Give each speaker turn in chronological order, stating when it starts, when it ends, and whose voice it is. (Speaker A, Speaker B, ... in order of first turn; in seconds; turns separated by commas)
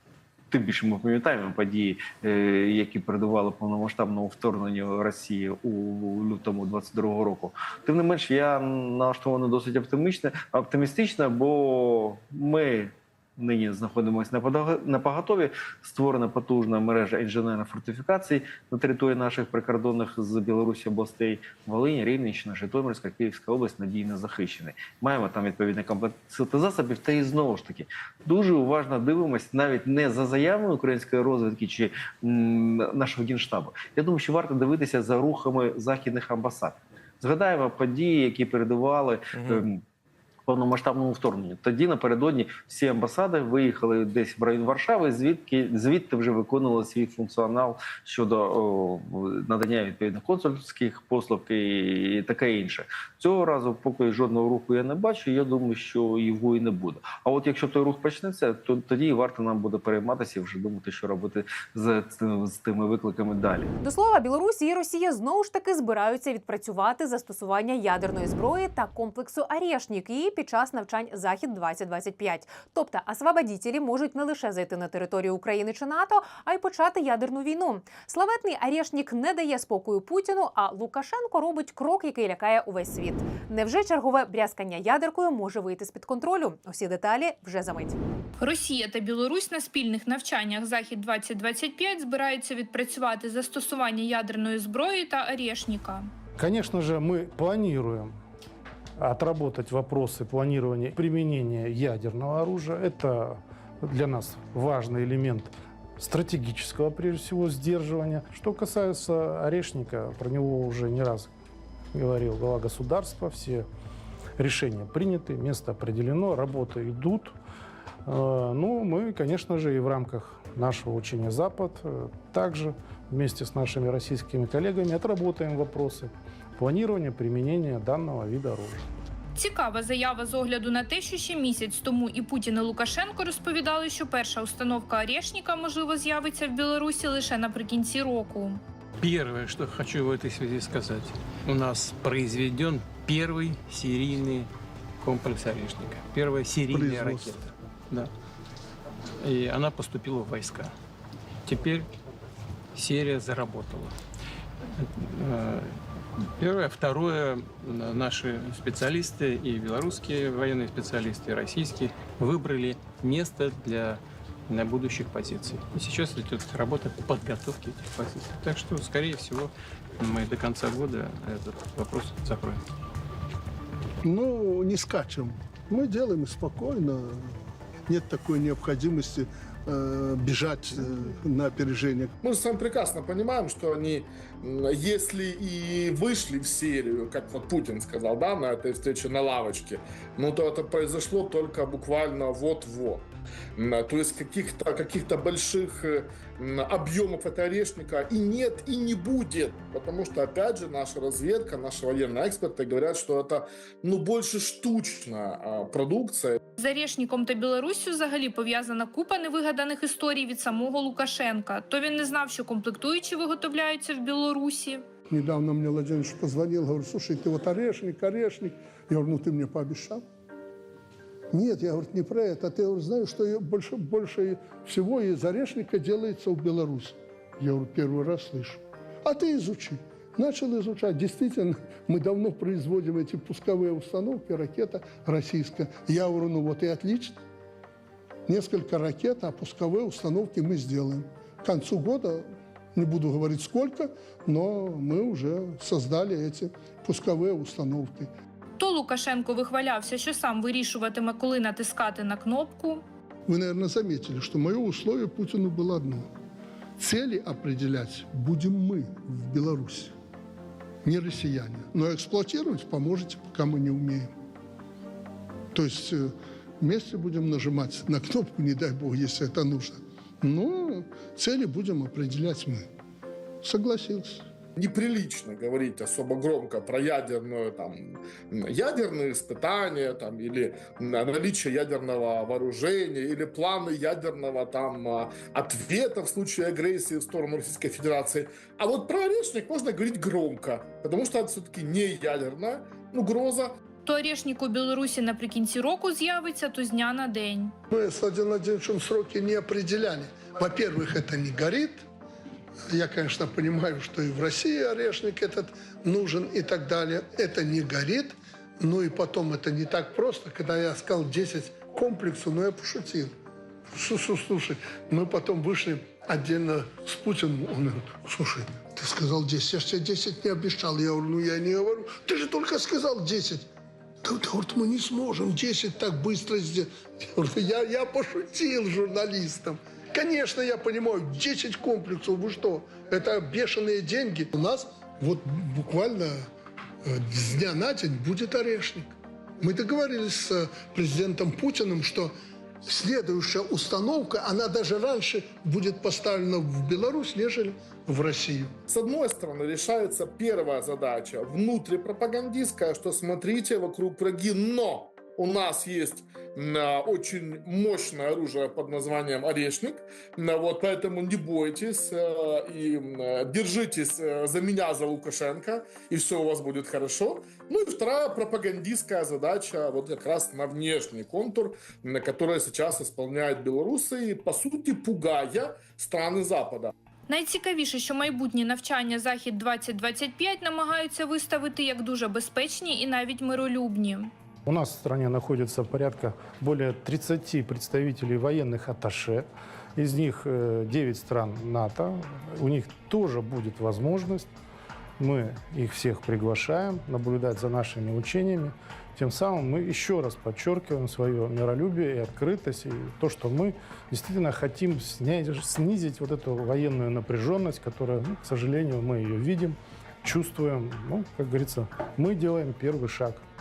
Speaker A: 0.5-39.8, Speaker A: 40.5-63.7, Speaker B: 63.8-88.0, Speaker C: 88.4-96.1, Speaker D: 96.4-98.1, Speaker D: 99.0-111.3, Speaker D: 111.9-113.7, Speaker D: 114.4-117.3, Speaker D: 118.1-128.8, Speaker C: 129.4-138.6, Speaker E: 139.0-148.1, Speaker F: 146.7-147.5, Speaker E: 149.2-150.7, Speaker E: 151.4-151.9, Speaker E: 152.8-153.9, Speaker E: 154.8-155.8, Speaker E: 156.4-172.6, Speaker F: 174.0-177.4, Speaker F: 177.9-182.1, Speaker G: 182.2-193.1, Speaker G: 193.6-206.4, Speaker C: 206.6-214.8, Speaker F: 215.1-220.0, Speaker F: 221.3-237.2, Speaker F: 238.3-248.1, Speaker C: 248.6-252.8, Speaker F: 253.3-256.1, Speaker F: 256.8-259.9, Speaker F: 260.8-264.1, Speaker F: 265.5-272.7, Speaker F: 273.4-274.3, Speaker G: 274.6-293.5, Speaker C: 293.9-297.5, Speaker F: 297.7-301.8, Speaker F: 302.7-313.1, Speaker F: 313.7-323.5, Speaker F: 324.0-336.2, Speaker F: 336.8-338.9, Speaker F: 339.4-348.6, Speaker G: 348.7-376.7, Speaker C: 377.1-384.1, Speaker D: 384.5-389.2, Speaker D: 389.8-394.3, Speaker D: 395.0-413.2